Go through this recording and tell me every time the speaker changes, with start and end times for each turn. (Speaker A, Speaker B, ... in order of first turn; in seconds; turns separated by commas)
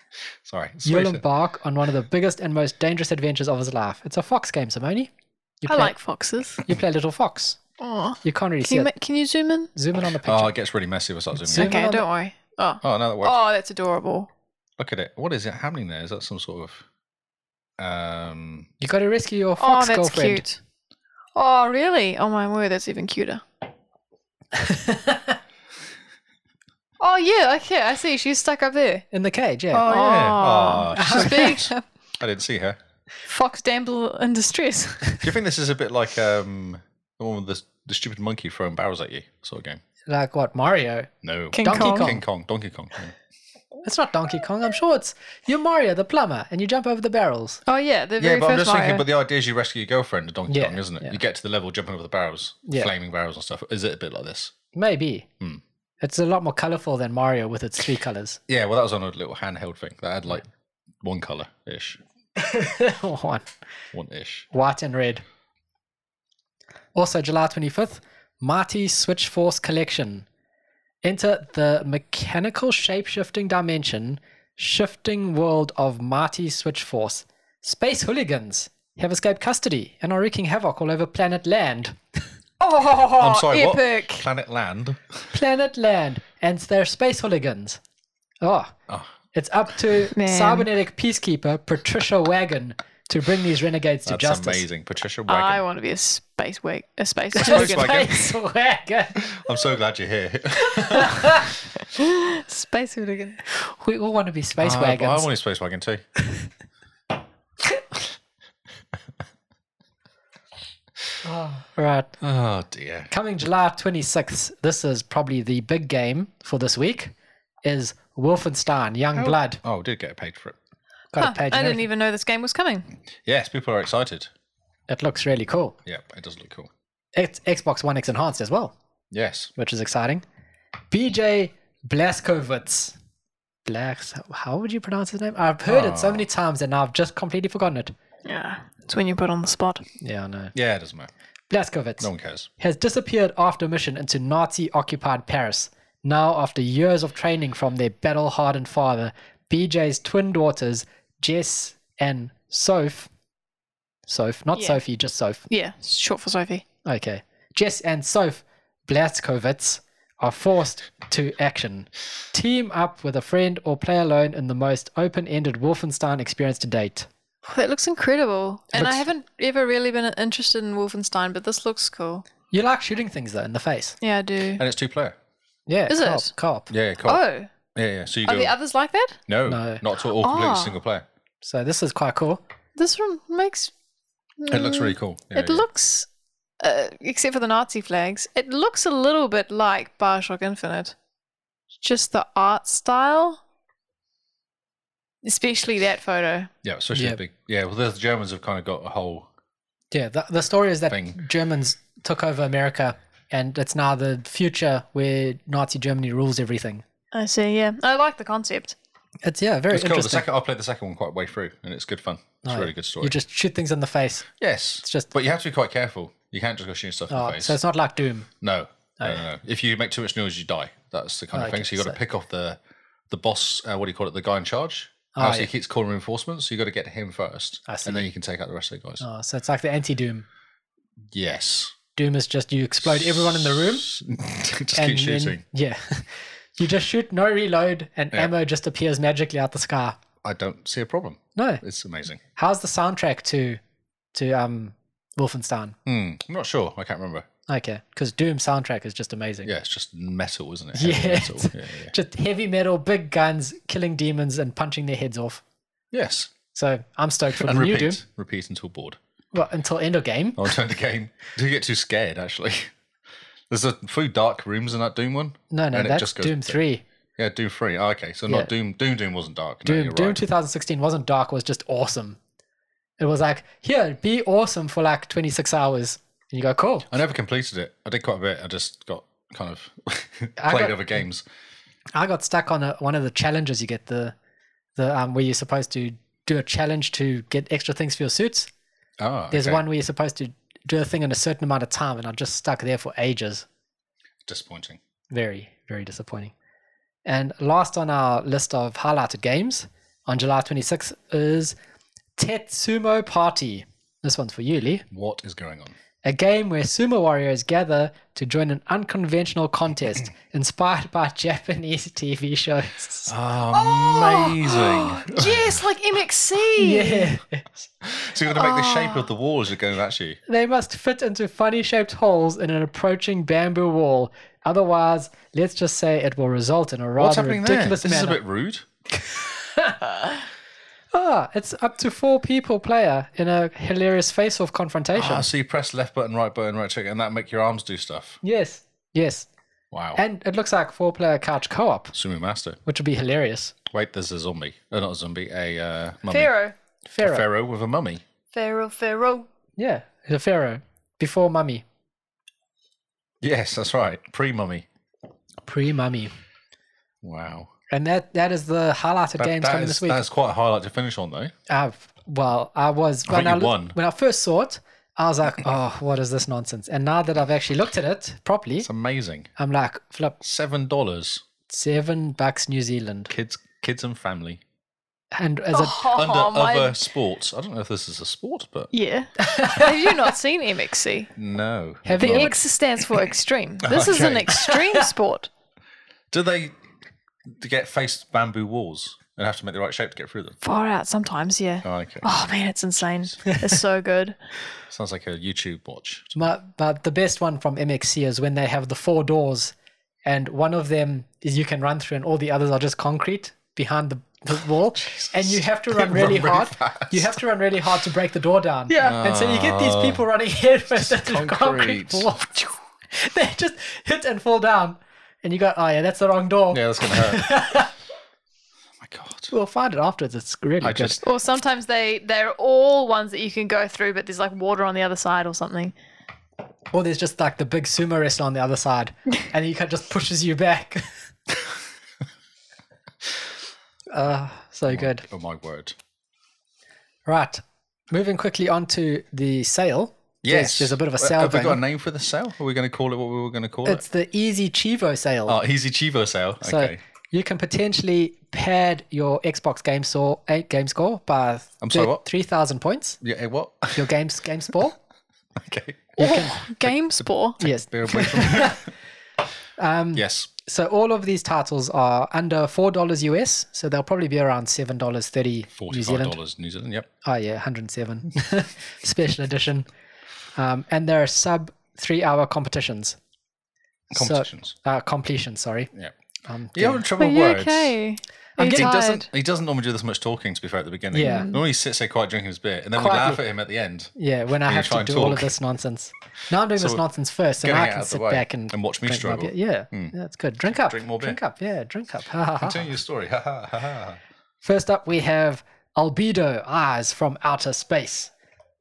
Speaker A: 0.5-1.2, Speaker B: 0.8-5.1, Speaker B: 5.6-5.9, Speaker C: 5.7-6.6, Speaker B: 6.7-7.6, Speaker C: 7.8-9.7, Speaker B: 8.2-8.9, Speaker B: 9.8-10.5, Speaker A: 10.2-11.8, Speaker B: 11.4-12.1, Speaker C: 11.5-14.3, Speaker A: 12.8-13.4, Speaker A: 14.8-16.9, Speaker A: 17.8-18.7, Speaker B: 18.8-20.4, Speaker C: 19.6-20.6, Speaker C: 21.4-23.4, Speaker B: 24.6-25.4, Speaker C: 27.0-29.1, Speaker B: 29.1-30.0, Speaker C: 29.7-31.8, Speaker A: 29.8-32.8, Speaker B: 30.9-31.7, Speaker C: 33.2-35.2, Speaker A: 35.2-39.8, Speaker B: 40.1-42.2, Speaker A: 41.2-43.2, Speaker C: 41.5-42.2, Speaker B: 43.8-47.6, Speaker C: 47.7-49.1, Speaker A: 48.2-54.5, Speaker B: 50.5-51.2, Speaker B: 52.7-52.9, Speaker B: 54.7-55.3, Speaker B: 56.0-58.4, Speaker A: 58.5-60.5, Speaker A: 61.0-62.0, Speaker B: 62.4-63.5, Speaker A: 63.9-64.5, Speaker B: 64.5-65.2, Speaker B: 67.0-70.2, Speaker B: 71.0-82.0, Speaker C: 82.6-84.2, Speaker A: 83.2-85.3, Speaker B: 85.3-87.8, Speaker B: 88.4-88.8, Speaker A: 88.9-89.1, Speaker B: 89.3-94.6, Speaker C: 90.2-90.7, Speaker A: 94.1-95.6, Speaker C: 95.3-98.1, Speaker B: 97.4-99.3, Speaker A: 97.4-98.2, Speaker A: 99.2-101.5, Speaker B: 100.9-101.5, Speaker C: 101.8-103.4, Speaker B: 103.5-105.3, Speaker A: 104.6-106.0, Speaker B: 111.2-112.1, Speaker A: 112.2-113.1, Speaker B: 113.1-117.1, Speaker B: 117.6-119.6, Speaker A: 119.2-120.6, Speaker B: 121.1-121.8, Speaker C: 121.2-122.9, Speaker A: 123.2-124.3, Speaker B: 124.9-125.8, Speaker A: 125.9-126.7, Speaker B: 127.2-128.7, Speaker A: 129.1-129.5, Speaker B: 129.6-130.2, Speaker B: 130.9-132.9, Speaker B: 133.7-137.9, Speaker A: 135.7-136.2, Speaker C: 138.2-139.8, Speaker B: 140.0-140.5, Speaker A: 140.5-141.1, Speaker B: 141.5-142.1, Speaker A: 142.0-142.5, Speaker B: 142.6-153.1, Speaker B: 154.1-155.4, Speaker C: 154.6-154.8, Speaker C: 155.5-156.6, Speaker B: 156.8-167.1, Speaker C: 167.5-172.2, Speaker B: 168.7-169.0, Speaker B: 172.5-174.0, Speaker C: 174.0-174.6, Speaker A: 174.6-175.2, Speaker B: 175.7-176.7, Speaker C: 175.9-176.3, Speaker A: 176.7-177.2, Speaker C: 177.1-177.5, Speaker A: 177.8-178.5, Speaker C: 178.2-179.2, Speaker A: 179.3-181.1, Speaker B: 179.5-179.8, Speaker C: 180.2-180.8, Speaker B: 181.4-182.4, Speaker C: 182.8-183.7, Speaker C: 184.4-186.1, Speaker A: 184.5-185.6, Speaker C: 186.6-190.9, Speaker C: 191.8-193.4, Speaker C: 195.2-196.5, Speaker A: 196.6-199.3, Speaker B: 196.9-197.2, Speaker B: 199.9-206.8, Speaker A: 200.9-201.2, Speaker C: 207.1-208.8, Speaker B: 209.2-210.2, Speaker A: 209.7-213.2, Speaker B: 212.4-215.1, Speaker A: 214.4-217.6, Speaker B: 217.1-218.3, Speaker A: 218.4-222.6, Speaker B: 221.3-222.0, Speaker A: 223.1-229.0, Speaker B: 225.2-225.5, Speaker B: 227.7-228.1, Speaker B: 229.0-230.2, Speaker A: 231.1-231.8, Speaker B: 232.0-233.9, Speaker A: 232.8-235.4, Speaker B: 234.8-240.0, Speaker A: 240.2-242.2, Speaker B: 241.4-241.6, Speaker B: 242.4-243.6, Speaker B: 244.1-245.8, Speaker A: 245.9-247.3, Speaker B: 247.5-249.5, Speaker A: 249.4-251.9, Speaker B: 250.7-255.4, Speaker A: 255.9-256.3, Speaker B: 256.6-258.0, Speaker A: 257.3-259.0, Speaker B: 259.3-260.5, Speaker A: 260.4-262.7, Speaker A: 263.5-266.6, Speaker B: 265.5-266.8, Speaker A: 267.2-270.2, Speaker B: 269.6-272.2, Speaker B: 273.0-276.9, Speaker A: 276.9-281.2, Speaker B: 280.4-281.0, Speaker B: 281.9-284.1, Speaker B: 284.8-288.5, Speaker A: 289.0-289.6, Speaker B: 289.3-293.4, Speaker A: 294.2-294.8, Speaker B: 295.1-296.3, Speaker B: 297.1-301.6, Speaker B: 302.2-304.8, Speaker A: 304.9-305.8, Speaker B: 306.0-313.1, Speaker A: 313.1-315.6, Speaker C: 313.5-317.1, Speaker B: 316.6-317.5, Speaker A: 317.8-320.2, Speaker C: 318.3-319.1, Speaker B: 320.3-328.2, Speaker A: 327.0-328.7, Speaker B: 329.0-329.8, Speaker B: 330.9-335.3, Speaker A: 334.9-338.2, Speaker B: 338.2-339.3, Speaker A: 339.7-340.0, Speaker B: 340.0-341.9, Speaker A: 341.9-342.6, Speaker B: 342.7-343.6, Speaker A: 343.7-346.3, Speaker C: 346.1-346.6, Speaker B: 346.9-347.2, Speaker A: 347.0-348.0, Speaker C: 348.3-349.3, Speaker B: 349.6-351.6, Speaker A: 353.2-354.7, Speaker B: 355.4-356.1, Speaker A: 357.0-357.5, Speaker B: 357.7-360.0, Speaker A: 359.2-361.3, Speaker B: 361.5-368.7, Speaker A: 363.1-363.8, Speaker A: 368.6-369.3, Speaker B: 369.4-370.2, Speaker A: 370.2-371.2, Speaker B: 371.5-373.1, Speaker A: 373.1-374.4, Speaker B: 375.1-375.9, Speaker C: 375.5-376.8, Speaker A: 375.9-378.7, Speaker C: 378.7-381.1, Speaker B: 379.2-379.9, Speaker A: 381.2-382.4, Speaker B: 381.9-382.4, Speaker C: 382.0-385.3, Speaker A: 383.6-384.4, Speaker A: 386.1-386.6, Speaker A: 387.3-390.4, Speaker C: 390.4-394.2, Speaker A: 391.6-392.1, Speaker A: 394.7-396.2, Speaker B: 396.2-399.5, Speaker B: 400.1-417.7, Speaker A: 404.8-407.1, Speaker C: 408.7-409.0, Speaker A: 408.8-410.0, Speaker A: 410.8-412.1, Speaker A: 416.5-417.2, Speaker A: 418.8-419.3, Speaker B: 419.3-421.0, Speaker A: 420.6-421.0, Speaker C: 421.0-425.7, Speaker B: 426.7-430.9, Speaker B: 433.9-435.0, Speaker A: 434.7-435.8, Speaker B: 437.1-441.6, Speaker A: 440.2-443.8, Speaker B: 443.6-445.4, Speaker A: 445.2-446.8, Speaker B: 446.4-453.0, Speaker A: 451.6-452.0, Speaker A: 453.0-453.9, Speaker B: 453.7-454.8, Speaker A: 455.4-458.7, Speaker B: 456.0-456.4, Speaker C: 456.0-457.4, Speaker B: 457.4-458.7, Speaker B: 459.6-466.1, Speaker A: 459.9-460.3, Speaker A: 465.6-466.9, Speaker B: 467.0-469.7, Speaker B: 470.4-473.0, Speaker A: 473.9-474.6, Speaker B: 473.9-475.7, Speaker B: 476.2-476.8, Speaker A: 476.6-477.8, Speaker C: 477.0-479.1, Speaker B: 478.4-478.7, Speaker A: 478.4-483.9, Speaker B: 480.9-481.3, Speaker C: 481.0-481.4, Speaker B: 482.8-483.2, Speaker B: 484.0-492.7, Speaker A: 484.4-485.3, Speaker A: 486.6-486.8, Speaker A: 487.4-489.9, Speaker A: 490.5-491.2, Speaker A: 492.4-494.0, Speaker B: 494.4-498.1